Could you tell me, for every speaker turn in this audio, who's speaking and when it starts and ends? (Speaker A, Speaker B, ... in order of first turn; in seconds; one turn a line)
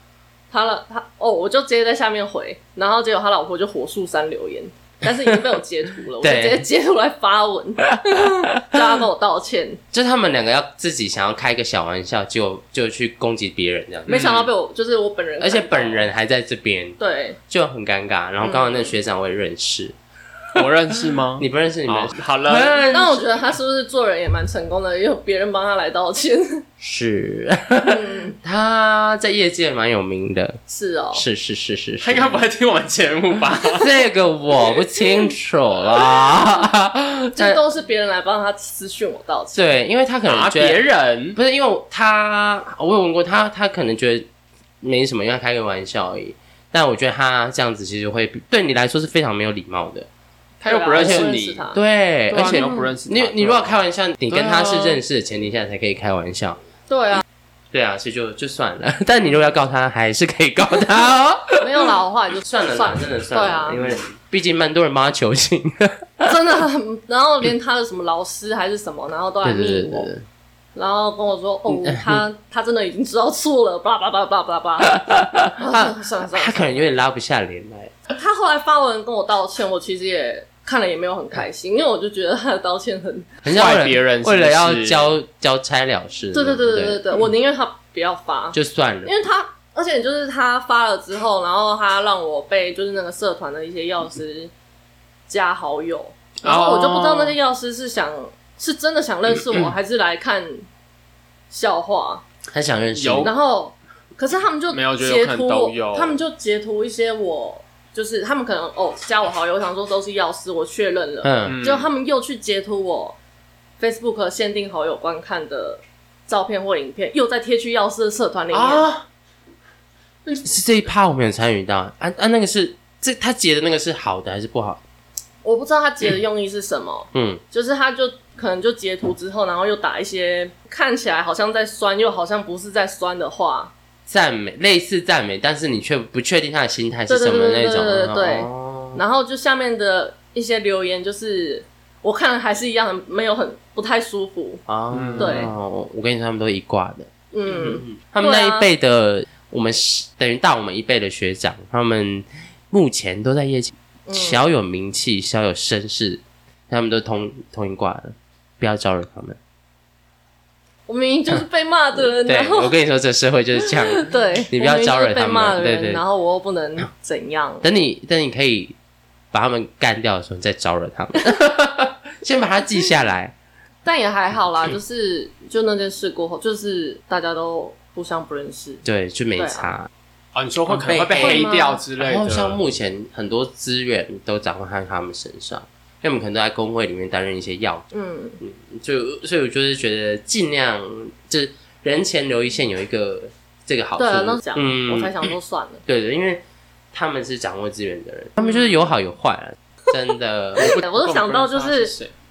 Speaker A: 0.5-9.8
Speaker B: 6.2-6.7
Speaker B: 9.9-14.3
Speaker A: 14.1-16.1
Speaker C: 14.1-14.5
Speaker B: 15.4-17.0
Speaker A: 17.0-17.4
Speaker B: 17.5-19.9
Speaker A: 18.4-18.9
Speaker C: 20.6-22.8
Speaker B: 21.4-23.4
Speaker A: 22.9-26.6
Speaker B: 26.8-30.6
Speaker A: 27.8-28.4
Speaker A: 30.7-31.2
Speaker B: 31.1-32.4
Speaker C: 32.0-33.9
Speaker B: 33.7-37.6
Speaker A: 37.4-39.6
Speaker B: 39.5-44.3
Speaker C: 40.3-41.4
Speaker B: 44.8-50.1
Speaker A: 50.6-51.8
Speaker C: 50.6-51.6
Speaker B: 51.0-56.6
Speaker A: 52.3-52.9
Speaker C: 52.3-53.8
Speaker C: 54.3-55.0
Speaker A: 56.9-57.2
Speaker B: 57.7-66.3
Speaker A: 61.6-63.8
Speaker A: 66.2-70.1
Speaker B: 69.4-70.2
Speaker A: 70.8-75.0
Speaker B: 71.7-72.2
Speaker B: 74.8-77.9
Speaker A: 75.6-77.0
Speaker A: 78.1-83.3
Speaker B: 83.4-87.0
Speaker C: 83.5-85.1
Speaker A: 86.3-94.5
Speaker B: 88.5-89.1
Speaker A: 95.3-100.7
Speaker C: 96.4-97.4
Speaker A: 101.5-102.2
Speaker B: 102.5-103.3
Speaker C: 103.0-103.3
Speaker A: 103.2-113.2
Speaker C: 104.7-106.2
Speaker B: 111.2-111.6
Speaker C: 111.5-111.9
Speaker A: 113.8-118.9
Speaker C: 118.5-119.1
Speaker B: 120.4-124.8
Speaker A: 125.4-133.7
Speaker B: 127.1-127.4
Speaker B: 134.1-139.0
Speaker A: 137.1-144.6
Speaker B: 144.7-159.4
Speaker C: 144.9-145.5
Speaker A: 145.2-145.5
Speaker A: 147.3-148.7
Speaker A: 154.1-154.4
Speaker A: 160.9-162.8
Speaker B: 162.0-166.0
Speaker A: 163.6-167.6
Speaker B: 167.6-168.8
Speaker B: 169.3-173.3
Speaker A: 173.8-178.8
Speaker B: 178.8-179.9
Speaker A: 179.4-179.7
Speaker C: 180.3-182.6
Speaker B: 180.7-187.9
Speaker A: 181.2-181.8
Speaker A: 187.9-188.4
Speaker B: 188.4-195.3
Speaker A: 194.0-195.8
Speaker B: 195.9-196.4
Speaker B: 196.9-200.7
Speaker A: 198.4-198.8
Speaker C: 200.6-202.1
Speaker A: 200.6-201.9